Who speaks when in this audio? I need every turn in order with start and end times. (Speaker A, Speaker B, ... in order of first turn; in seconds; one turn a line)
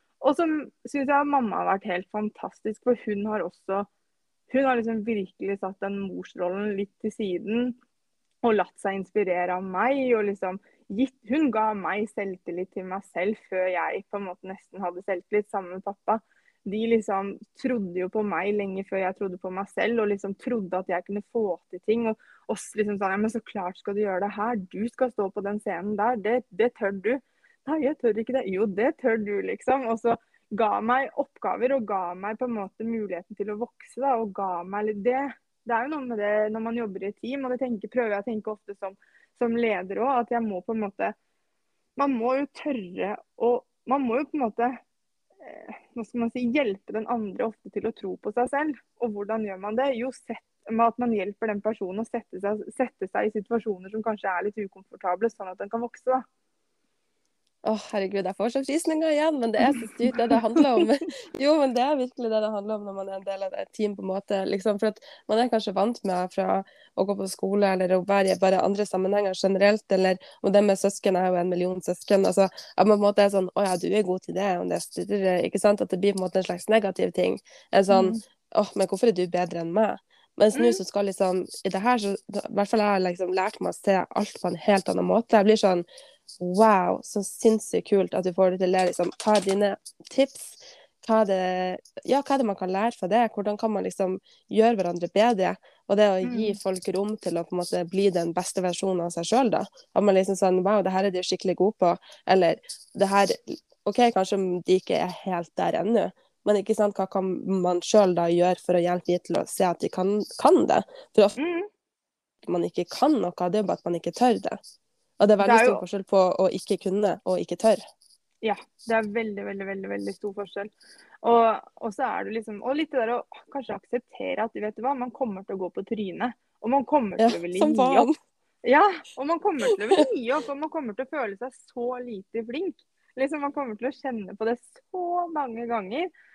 Speaker A: 0.2-3.9
Speaker A: 4.5-7.8
Speaker A: 8.4-41.1
Speaker A: 42.0-44.8
Speaker A: 45.4-56.2
Speaker B: 57.6-85.8
Speaker A: 59.7-60.7
Speaker A: 77.9-78.2
Speaker A: 80.5-80.8
Speaker B: 86.4-111.4
Speaker A: 96.2-96.6
Speaker A: 111.4-111.7
Speaker B: 112.4-114.6
Speaker B: 115.2-117.8
Speaker A: 115.4-115.8
Speaker A: 118.4-120.7
Speaker A: 121.2-128.1
Speaker B: 127.2-128.2
Speaker A: 128.6-136.1